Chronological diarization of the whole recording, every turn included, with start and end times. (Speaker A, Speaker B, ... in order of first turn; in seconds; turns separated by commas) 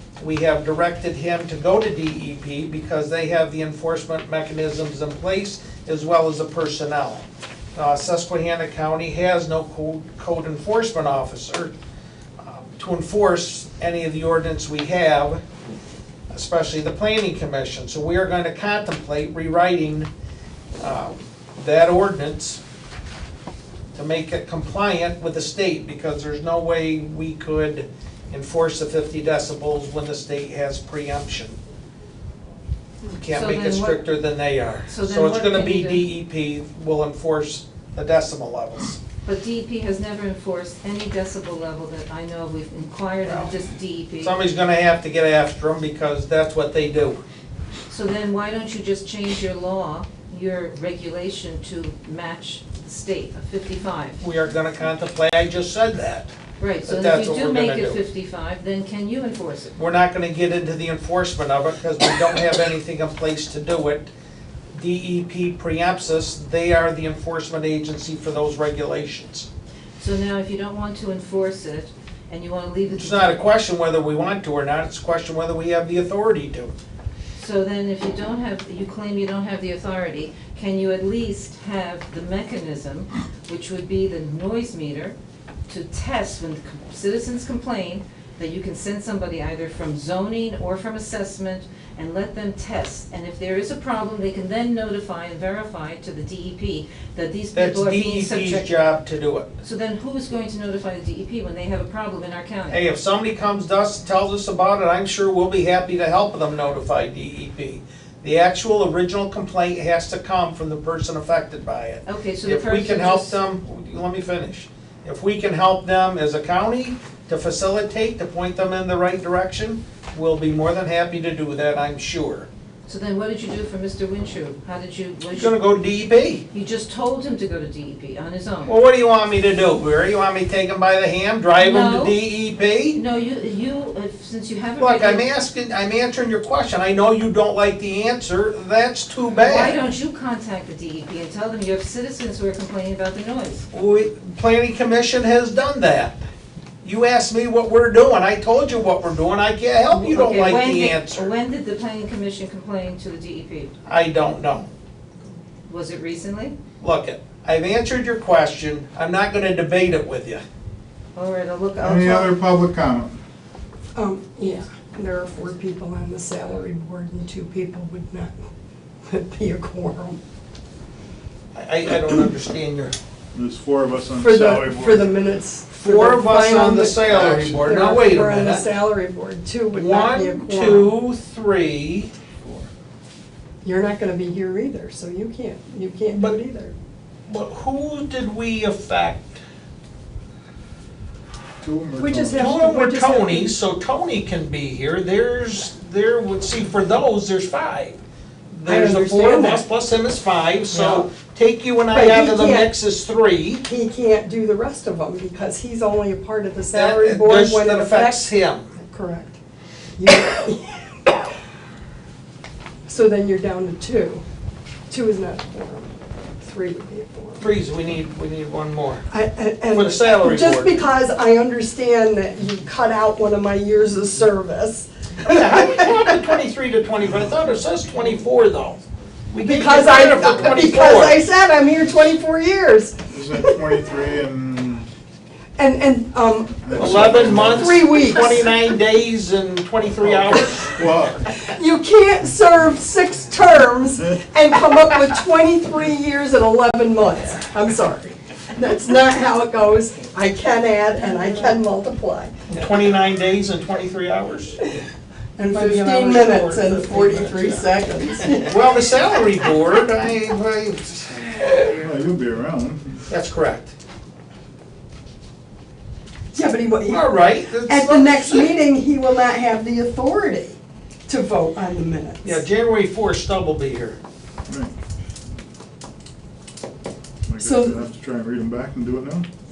Speaker A: 0.2-11.7, Speaker A: 12.4-15.4, Speaker A: 16.3-20.1, Speaker A: 20.8-22.6, Speaker A: 23.9-31.6, Speaker A: 33.0-39.0, Speaker B: 33.3-34.0, Speaker B: 34.9-36.1, Speaker B: 39.3-44.3, Speaker A: 43.2-43.5, Speaker A: 44.2-47.2, Speaker B: 47.9-54.2, Speaker A: 54.2-56.3, Speaker B: 56.6-59.8, Speaker A: 56.9-58.0, Speaker A: 59.8-64.1, Speaker A: 64.7-69.5, Speaker B: 70.0-73.5, Speaker A: 72.9-76.8, Speaker B: 77.4-85.2, Speaker B: 85.7-98.7, Speaker A: 97.5-99.5, Speaker B: 99.6-102.8, Speaker A: 102.7-122.5, Speaker B: 112.1-113.4, Speaker B: 122.9-125.5, Speaker A: 125.3-126.4, Speaker B: 126.5-128.8, Speaker A: 128.7-133.0, Speaker B: 131.6-132.2, Speaker B: 132.9-135.2, Speaker A: 134.8-139.8, Speaker B: 139.3-143.7, Speaker A: 143.7-146.2, Speaker A: 146.8-151.3, Speaker B: 149.9-153.7, Speaker A: 153.9-154.7, Speaker B: 155.7-156.6, Speaker A: 156.8-160.4, Speaker B: 161.2-162.3, Speaker C: 161.8-163.2, Speaker D: 163.9-168.3, Speaker D: 169.1-170.2, Speaker A: 171.6-172.9, Speaker C: 173.3-175.1, Speaker D: 174.2-180.9, Speaker A: 175.8-178.7, Speaker C: 177.1-177.6, Speaker A: 179.7-182.1, Speaker D: 183.6-186.7, Speaker A: 186.1-186.4, Speaker A: 187.3-189.4, Speaker C: 191.6-192.6, Speaker D: 192.0-193.6, Speaker A: 192.4-198.0, Speaker A: 198.5-203.6, Speaker D: 198.7-199.6, Speaker D: 200.7-201.1, Speaker D: 201.9-202.7, Speaker D: 203.7-209.4, Speaker A: 206.7-208.8, Speaker D: 210.0-211.1, Speaker D: 212.9-214.2, Speaker D: 214.9-215.9, Speaker D: 216.4-217.4, Speaker A: 217.4-219.1, Speaker D: 219.1-226.0, Speaker A: 219.7-220.8, Speaker A: 225.2-228.8, Speaker A: 229.3-231.2, Speaker D: 229.4-233.8, Speaker C: 233.1-234.9, Speaker D: 235.6-238.6, Speaker C: 236.6-237.8, Speaker A: 236.8-241.0, Speaker C: 240.0-241.3, Speaker D: 241.5-252.3, Speaker A: 252.5-254.6, Speaker D: 255.4-258.6, Speaker A: 255.5-257.7, Speaker A: 258.4-261.6, Speaker C: 261.7-263.0, Speaker A: 263.1-263.7, Speaker D: 266.3-272.4, Speaker A: 266.9-268.5, Speaker A: 272.2-274.0, Speaker C: 274.5-274.7, Speaker C: 277.3-279.3, Speaker D: 277.4-277.8